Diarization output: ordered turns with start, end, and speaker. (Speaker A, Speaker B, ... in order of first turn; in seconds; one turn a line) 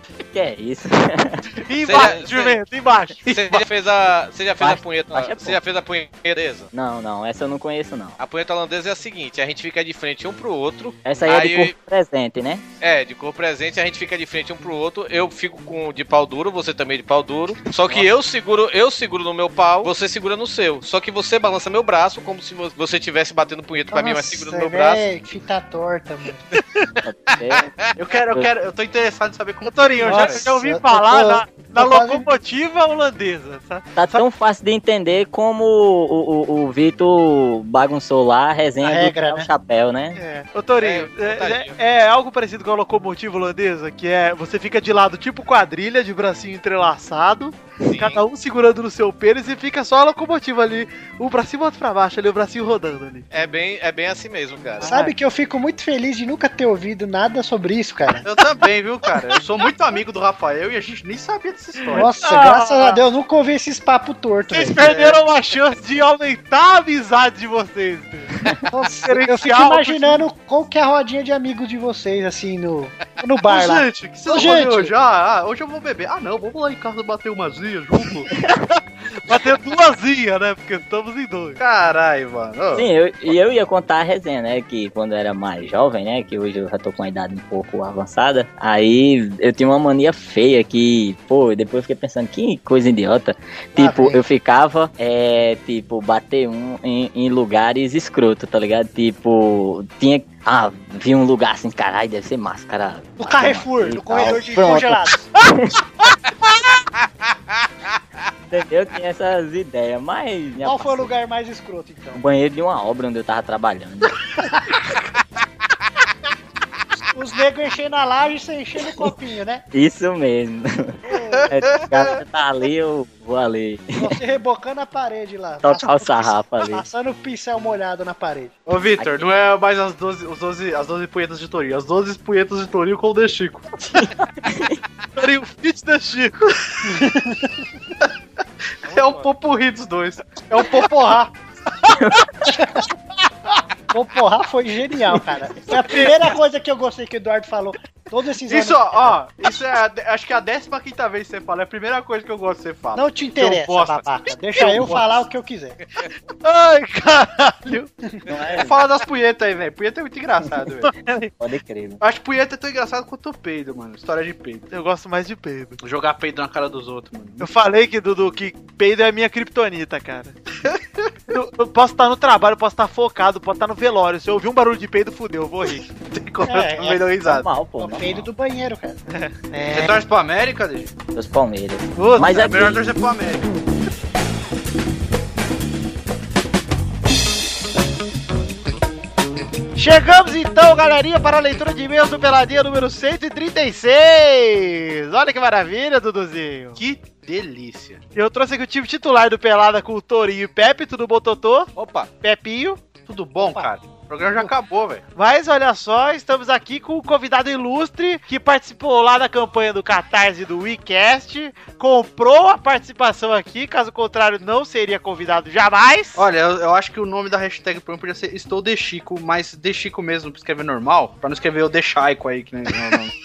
Speaker A: 0.2-1.5
Speaker B: 1.6-3.3
Speaker C: 1.8-2.6
Speaker C: 3.2-6.7
Speaker A: 4.6-5.6
Speaker A: 6.7-8.2
Speaker C: 8.2-11.7
Speaker A: 11.0-12.6
Speaker C: 12.8-25.0
Speaker D: 23.9-26.4
Speaker A: 27.0-27.7
Speaker C: 27.5-27.9
Speaker E: 27.9-30.4
Speaker B: 29.6-34.2
Speaker D: 30.0-32.3
Speaker A: 34.0-40.2
Speaker D: 38.8-39.5
Speaker B: 40.1-53.2
Speaker C: 40.8-41.7
Speaker C: 47.8-48.2
Speaker C: 53.3-54.9
Speaker B: 54.8-55.1
Speaker D: 54.8-58.2
Speaker E: 58.2-62.1
Speaker D: 61.9-64.8
Speaker B: 62.2-63.0
Speaker B: 64.5-68.3
Speaker E: 64.7-65.2
Speaker D: 68.6-74.9
Speaker B: 69.0-70.2
Speaker E: 73.4-78.3
Speaker B: 79.0-81.6
Speaker E: 81.6-82.9
Speaker A: 82.7-105.8
Speaker D: 93.8-94.2
Speaker D: 103.2-105.3
Speaker A: 108.5-111.1
Speaker D: 110.6-112.2
Speaker A: 112.1-114.2
Speaker D: 114.4-114.7
Speaker D: 117.1-119.6
Speaker A: 119.7-121.0
Speaker D: 121.0-121.5
Speaker A: 121.5-124.2
Speaker D: 124.0-128.6
Speaker A: 125.6-126.8
Speaker E: 128.7-133.7
Speaker A: 128.9-129.3
Speaker A: 133.9-134.8
Speaker B: 135.2-136.5
Speaker D: 136.8-137.6
Speaker E: 138.8-141.3
Speaker C: 138.9-139.3
Speaker A: 141.9-142.5
Speaker D: 142.4-142.8
Speaker D: 143.9-149.2
Speaker E: 148.5-155.0
Speaker D: 152.9-155.8
Speaker B: 156.4-157.9
Speaker A: 158.3-158.8
Speaker E: 158.5-160.9
Speaker B: 160.8-161.3
Speaker A: 161.4-162.0
Speaker E: 162.0-164.7
Speaker B: 164.7-165.8
Speaker E: 165.8-167.5
Speaker B: 167.4-170.3
Speaker E: 170.7-171.1
Speaker B: 171.3-175.9
Speaker E: 176.1-177.5
Speaker D: 176.4-177.1
Speaker A: 177.2-178.2
Speaker D: 177.8-179.0
Speaker B: 179.1-180.0
Speaker E: 179.7-180.9
Speaker A: 181.1-182.9
Speaker B: 181.9-182.5
Speaker E: 182.2-183.5
Speaker B: 189.8-196.8
Speaker E: 196.8-198.0
Speaker B: 198.1-201.7
Speaker C: 201.8-202.1
Speaker B: 202.2-202.8
Speaker E: 203.1-205.0
Speaker D: 203.4-203.7
Speaker B: 205.2-216.2
Speaker E: 216.1-223.1